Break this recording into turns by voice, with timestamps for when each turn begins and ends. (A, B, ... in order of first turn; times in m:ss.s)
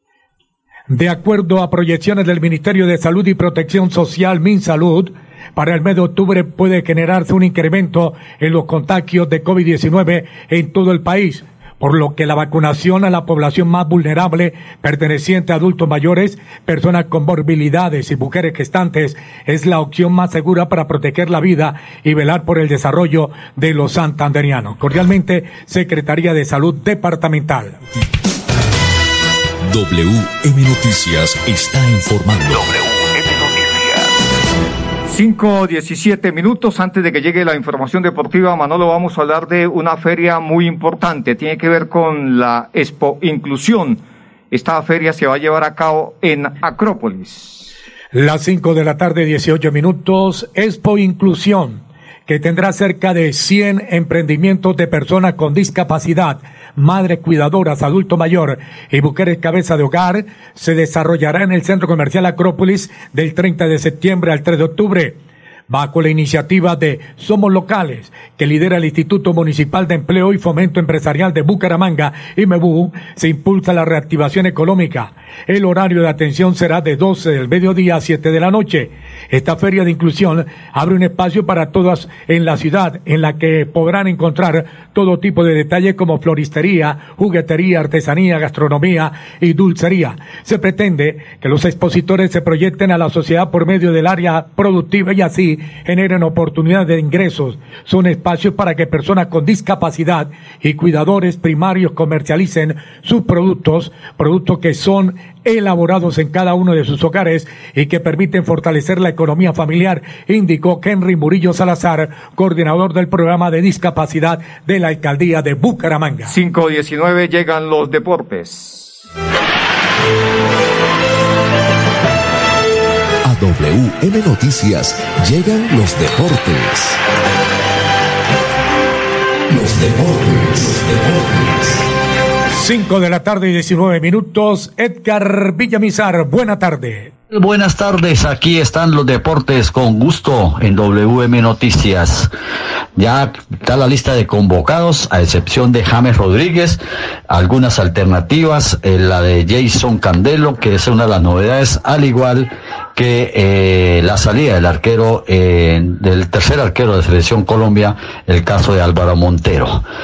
0:00.9-0:27.8 A
0:29.6-0:32.7 B
0:35.1-0:47.7 C
0:48.1-1:56.3 A
1:56.3-1:59.0 C
2:03.2-2:07.0 D
2:09.5-2:11.8 D
2:12.5-2:17.1 A
2:17.3-2:22.3 E
2:23.0-2:39.8 E